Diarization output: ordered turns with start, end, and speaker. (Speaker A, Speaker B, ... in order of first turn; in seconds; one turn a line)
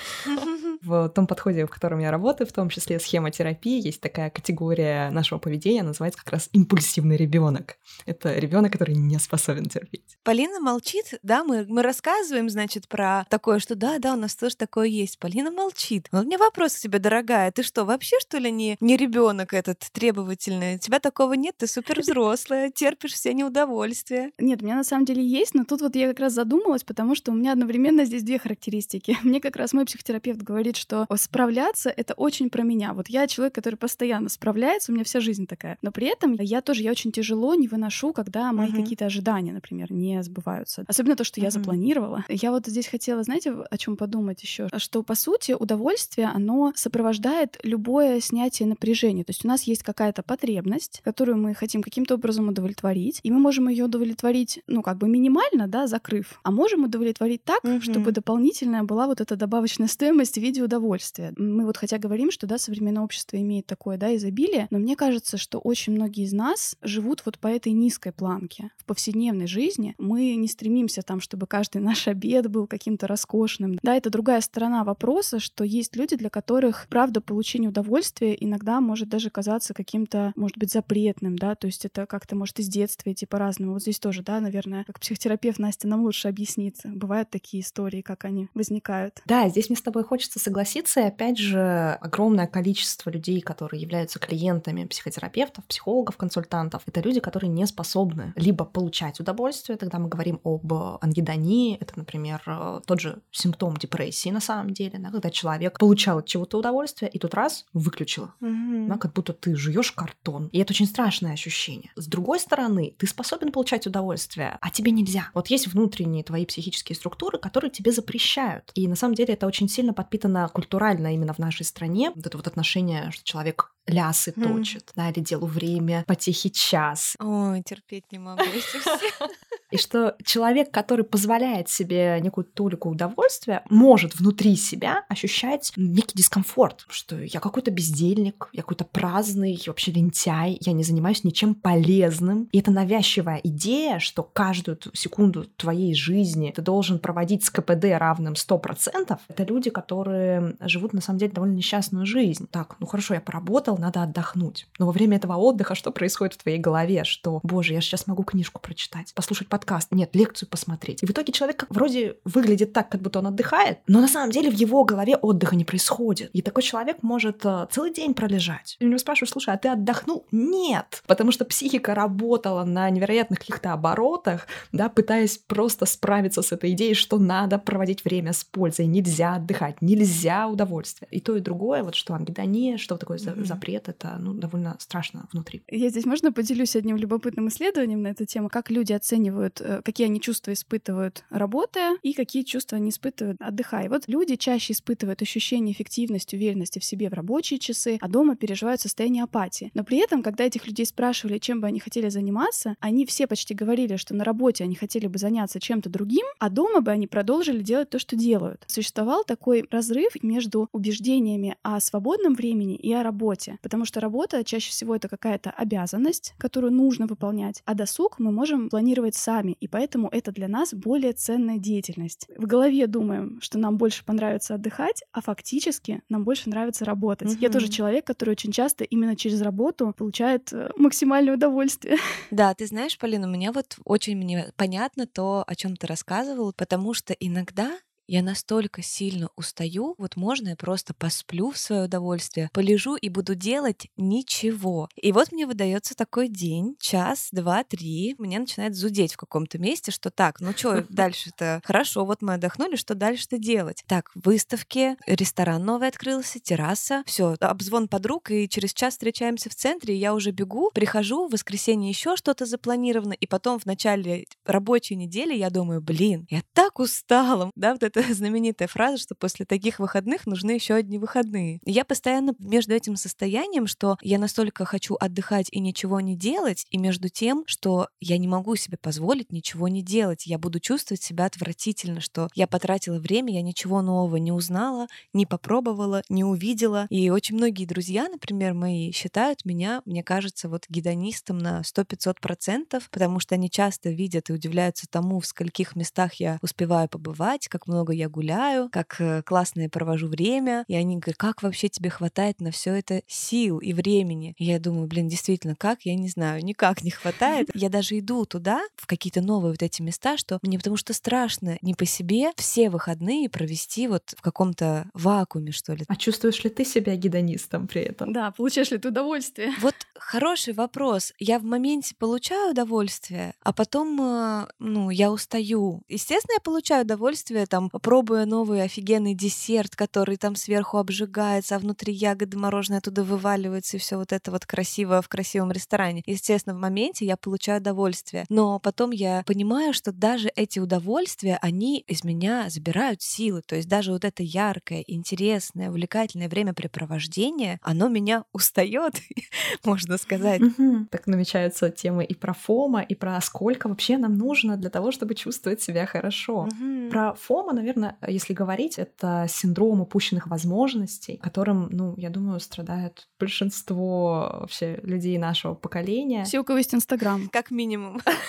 Speaker A: 0.2-0.7
Speaker B: 0.8-10.1
Speaker A: 10.2-24.3
Speaker C: 24.4-89.2
Speaker A: 38.6-38.9
Speaker A: 41.4-41.8
Speaker A: 57.6-58.1
Speaker B: 89.2-127.2
Speaker A: 108.4-109.0
Speaker A: 124.4-124.8
Speaker A: 127.2-129.2
Speaker B: 129.7-185.6
Speaker A: 183.2-183.6
Speaker C: 185.7-232.0
Speaker A: 227.2-227.8
Speaker A: 232.3-315.9
Speaker B: 315.9-318.1
Speaker C: 318.0-319.6
Speaker A: 319.6-350.4
Speaker B: 350.4-366.3
Speaker A: 356.4-357.0
Speaker C: 366.2-367.3
Speaker A: 367.3-368.0